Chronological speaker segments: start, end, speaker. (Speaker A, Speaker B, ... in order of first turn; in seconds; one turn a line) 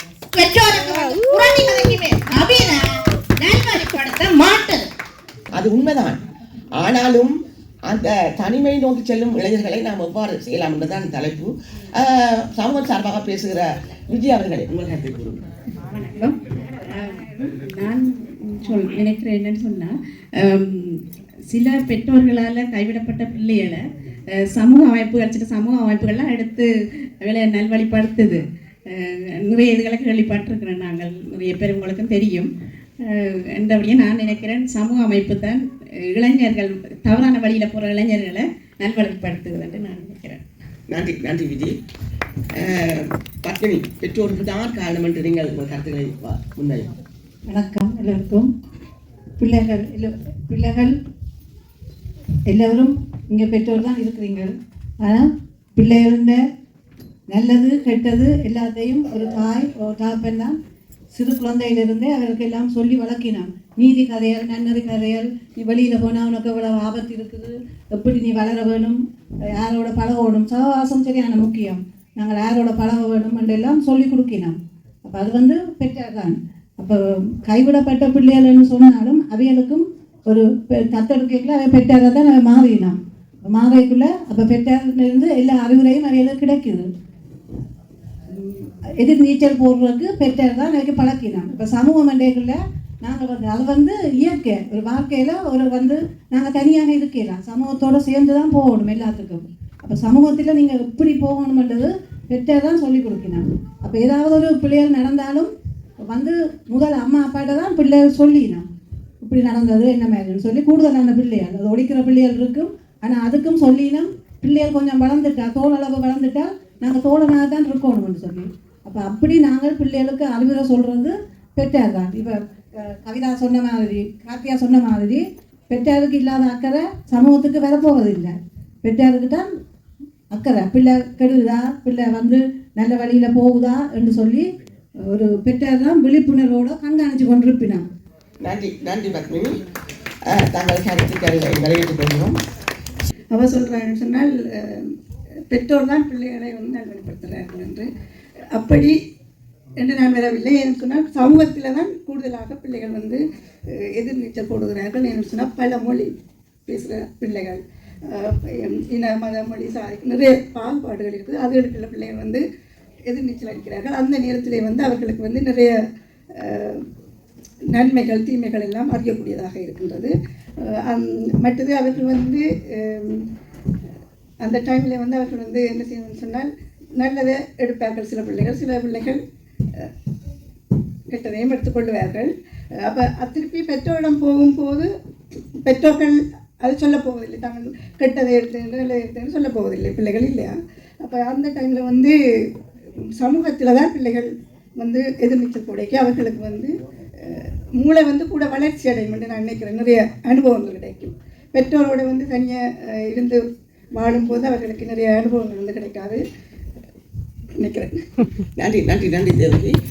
Speaker A: 0.3-4.9
Speaker B: 5.5-6.2
Speaker B: 6.8-15.4
Speaker C: 15.9-40.4
Speaker B: 40.9-41.8
Speaker B: 42.6-46.9
Speaker D: 47.5-48.5
Speaker D: 49.4-50.9
Speaker D: 52.5-54.5
Speaker D: 55.8-56.4
Speaker D: 57.3-60.6
Speaker D: 61.1-86.9
Speaker D: 88.3-108.7
Speaker D: 109.2-129.5
Speaker D: 130.3-134.5
Speaker D: 135.1-137.8
Speaker B: 138.4-139.5
Speaker B: 140.3-142.4
Speaker E: 143.3-144.9
Speaker E: 145.5-147.9
Speaker E: 148.5-148.9
Speaker E: 149.8-156.1
Speaker E: 156.7-162.4
Speaker E: 163.1-165.7
Speaker E: 166.3-166.8
Speaker E: 167.7-173.3
Speaker E: 174.4-179.2
Speaker E: 181.1-184.9
Speaker E: 185.6-192.2
Speaker E: 193.2-203.4
Speaker E: 203.9-206.2
Speaker E: 207.6-208.0
Speaker B: 208.6-209.8